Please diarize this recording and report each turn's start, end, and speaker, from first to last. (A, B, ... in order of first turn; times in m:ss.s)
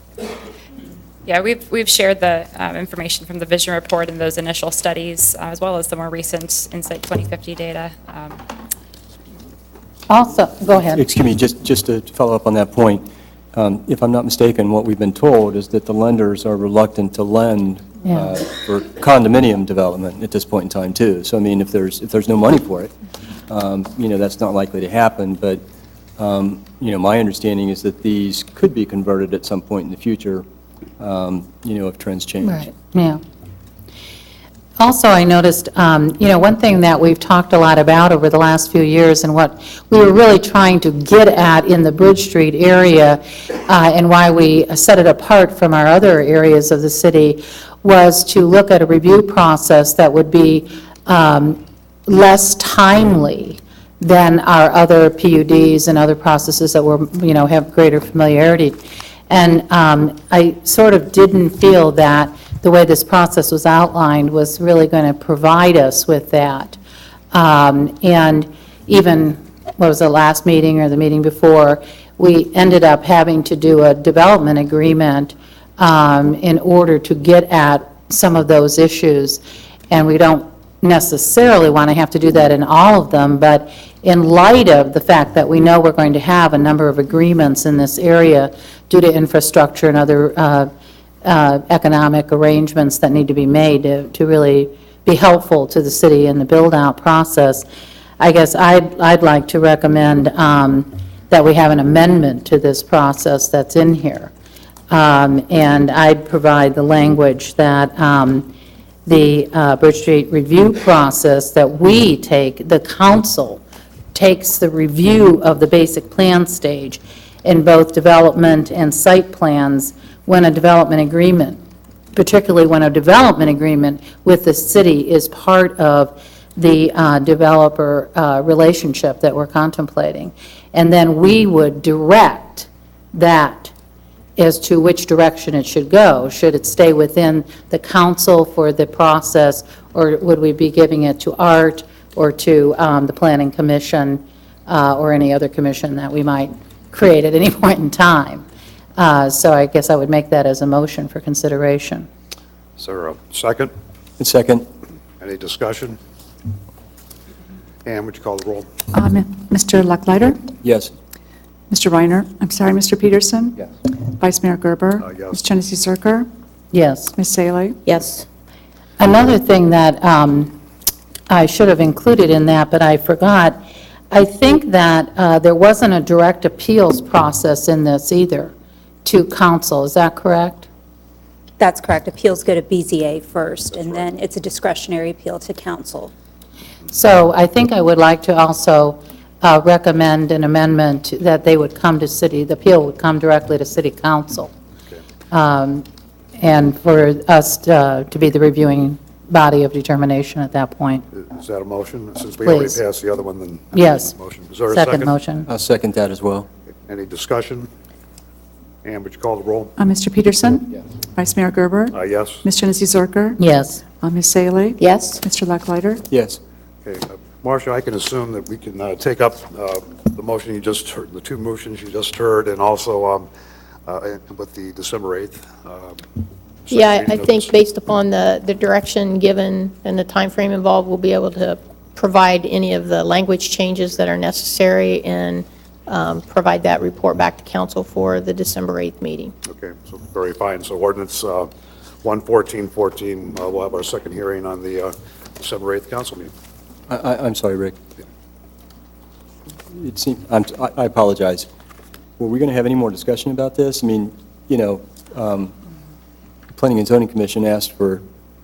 0:01.2-0:08.4 A
0:10.1-0:11.0 B
0:10.9-0:22.9 C
0:18.1-0:18.3 B
0:23.5-0:25.6 C
0:26.2-0:30.4 C
0:31.0-0:32.6 C
0:32.4-0:33.2 B
0:34.8-1:06.8 B
1:07.3-1:30.7 B
1:31.2-1:37.6 B
1:38.2-1:44.3 B
1:44.9-1:48.5 B
1:49.0-1:53.6 B
1:54.1-2:01.6 B
2:02.1-2:13.7 B
2:14.4-2:28.4 B
2:29.0-2:32.1 B
2:32.8-2:33.7 D
2:34.2-2:34.6 C
2:35.2-2:36.0 D
2:37.8-2:38.7 D
2:38.9-2:40.4 E
2:40.6-2:40.9 C
2:41.7-2:46.3 E
2:45.0-2:45.4 D
2:46.7-2:47.1 B
2:47.2-2:47.8 E
2:49.0-2:50.5 B
2:51.3-2:53.6 B
2:54.1-2:58.5 B
2:59.0-3:00.7 B
3:01.6-3:06.1 F
3:06.9-3:14.5 B
3:15.3-3:15.8 B
3:16.4-3:21.0 B
3:21.1-3:25.1 D
3:22.4-3:22.8 B
3:23.7-3:24.1 B
3:24.7-3:25.5 B
3:25.5-3:26.5 C
3:26.9-3:27.7 D
3:28.8-3:29.7 D
3:29.8-3:33.4 E
3:31.9-3:32.4 D
3:33.4-3:33.8 B
3:34.0-3:36.0 E
3:36.1-3:36.4 C
3:36.8-3:43.3 D
3:43.8-3:46.0 D
3:46.6-3:47.6 D
3:46.7-3:59.3 G
3:59.4-4:01.5 D
4:02.0-4:06.3 D
4:06.9-4:07.8 C
4:09.7-4:11.5 C
4:12.2-4:15.5 C
4:16.5-4:18.0 C